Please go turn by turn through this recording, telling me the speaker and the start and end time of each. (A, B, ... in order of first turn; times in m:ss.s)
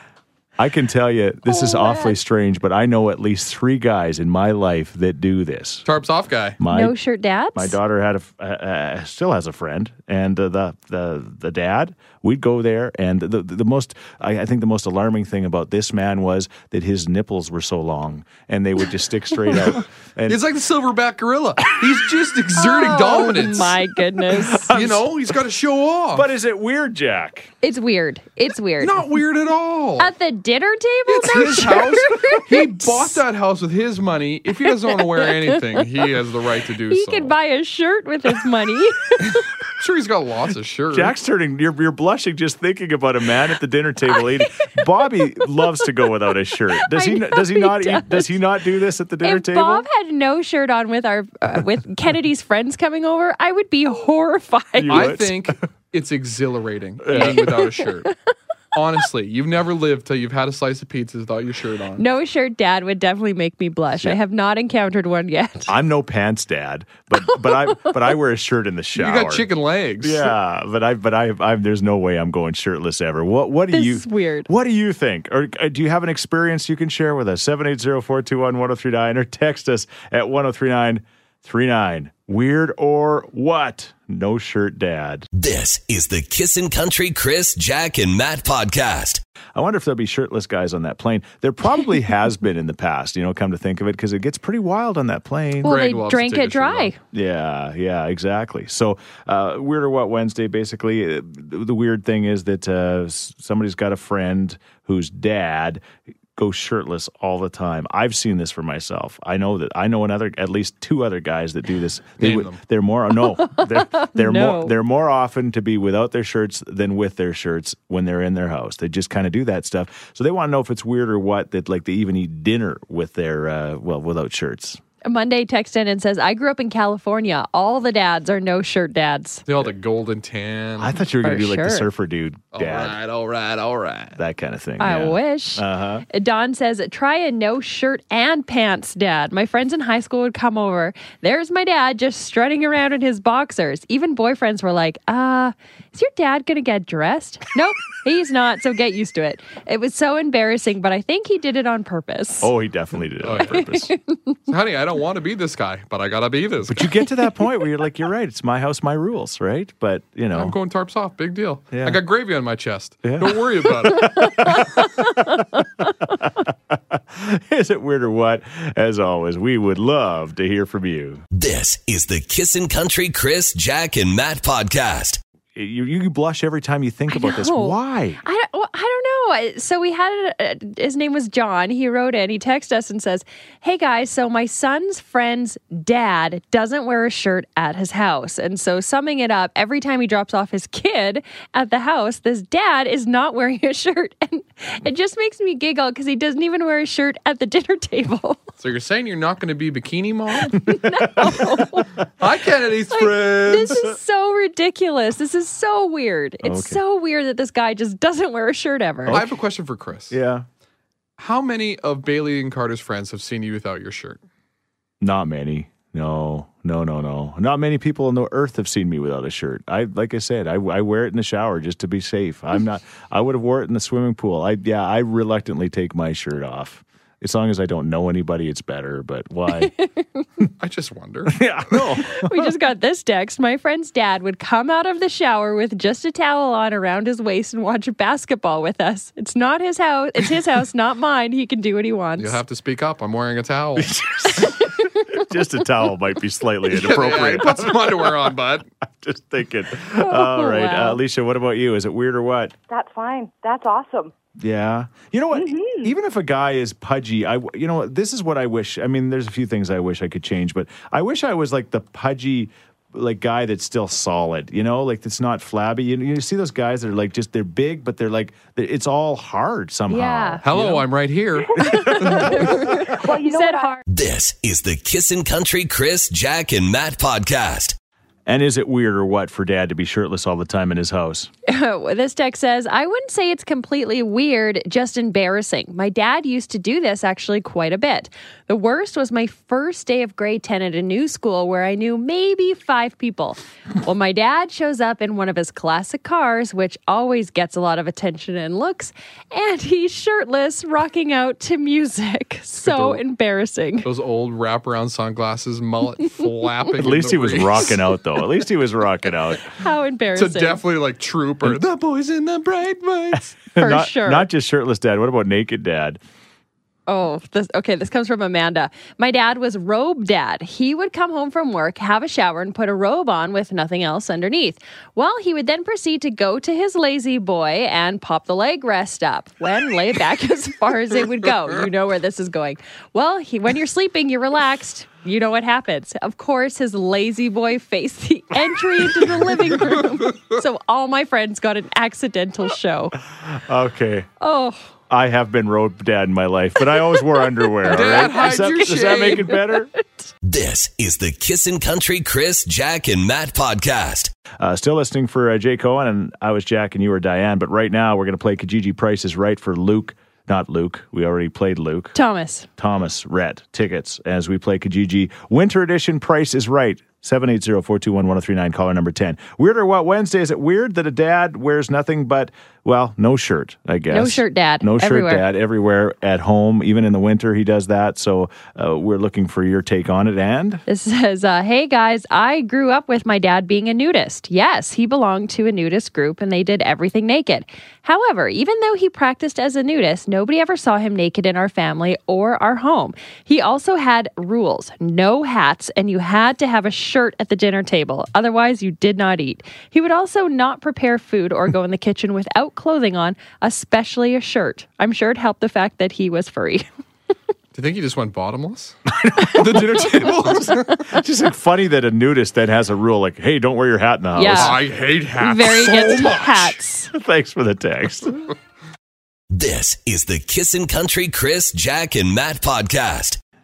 0:00.6-0:05.9 A
0:01.5-0:02.2 B
0:05.8-0:06.6 C
0:06.6-0:07.0 A
0:06.7-0:07.8 B
0:07.6-0:20.4 A
0:20.3-0:23.8 C
0:22.6-0:24.7 B
0:24.5-0:25.1 A
0:24.7-0:26.3 C
0:26.1-0:27.5 A
0:27.6-0:29.1 B
0:28.8-0:30.1 C
0:30.0-0:33.2 B
0:31.1-0:37.3 C
0:34.7-0:35.8 B
0:36.9-0:39.4 B
0:39.8-0:41.1 C
0:40.9-0:49.9 A
0:46.8-0:48.4 B
0:49.2-0:55.1 B
0:54.8-0:55.6 A
0:54.9-0:58.1 C
0:57.0-0:57.6 A
0:57.1-0:58.1 B
0:58.7-1:02.0 C
1:02.0-1:05.7 B
1:05.7-1:09.5 A
1:09.0-1:10.3 C
1:10.0-1:25.3 A
1:13.7-1:14.5 B
1:25.3-1:29.2 D
1:29.6-1:35.8 A
1:35.6-1:36.9 C
1:35.6-1:37.0 B
1:37.1-1:45.8 A
1:46.4-2:04.8 A
1:52.2-1:52.6 C
1:53.4-1:54.8 B
2:05.0-2:09.4 B
2:09.5-2:11.0 C
2:10.8-2:13.0 A
2:11.2-2:11.9 B
2:12.5-2:14.2 C
2:14.2-2:16.1 A
2:14.8-2:32.5 B
2:32.4-2:33.9 A
2:33.2-2:33.6 C
2:33.6-2:34.3 B
2:34.5-2:36.9 C
2:36.7-2:40.6 A
2:40.3-2:44.3 C
2:41.7-2:42.0 A
2:43.0-2:45.5 A
2:44.2-2:45.4 B
2:46.0-2:51.2 A
2:51.3-2:55.2 D
2:55.6-2:58.2 A
2:57.1-3:18.4 B
3:18.6-3:20.7 C
3:20.6-3:21.9 B
3:22.2-3:23.7 C
3:22.9-3:29.2 B
3:23.0-3:23.9 A
3:26.4-3:26.8 A
3:29.0-3:29.4 A
3:29.1-3:30.2 C
3:30.1-3:30.5 A
3:31.2-3:34.2 C
3:35.0-3:49.7 A
3:49.7-3:50.2 B
3:50.6-3:51.4 C
3:51.3-3:52.5 A
3:52.2-4:02.4 B
4:02.2-4:03.9 C
4:03.8-4:08.4 A
4:04.5-4:05.0 B
4:06.7-4:08.7 C
4:08.9-4:12.6 A
4:10.0-4:11.0 B
4:12.7-4:14.1 E
4:14.4-4:30.9 A
4:15.3-4:15.9 E
4:29.9-4:30.4 B
4:30.4-4:32.3 C
4:31.7-4:32.3 A
4:31.7-4:33.8 B
4:33.0-4:33.8 E
4:33.8-4:37.8 D
4:38.3-4:41.3 A
4:41.5-5:03.9 B
5:02.6-5:03.0 C
5:03.8-5:07.8 C
5:06.7-5:09.5 A
5:09.5-5:10.6 B
5:10.2-5:13.4 C
5:13.1-5:16.0 A
5:13.6-5:14.3 B
5:16.9-5:43.0 B
5:43.2-5:44.1 A
5:44.2-5:44.7 B
5:44.9-5:49.7 A
5:47.7-5:49.3 C
5:49.3-5:50.1 B
5:50.2-5:54.2 D
5:54.4-6:02.0 A
6:01.9-6:02.5 B
6:02.6-6:20.6 A
6:13.9-6:15.3 B
6:20.7-6:46.7 B
6:47.5-6:48.8 C
6:49.0-6:54.6 A
6:49.3-6:50.8 C
6:54.2-6:54.6 B
6:54.3-6:56.6 C
6:55.2-6:56.9 B
6:56.9-6:58.2 A
6:59.3-7:03.2 D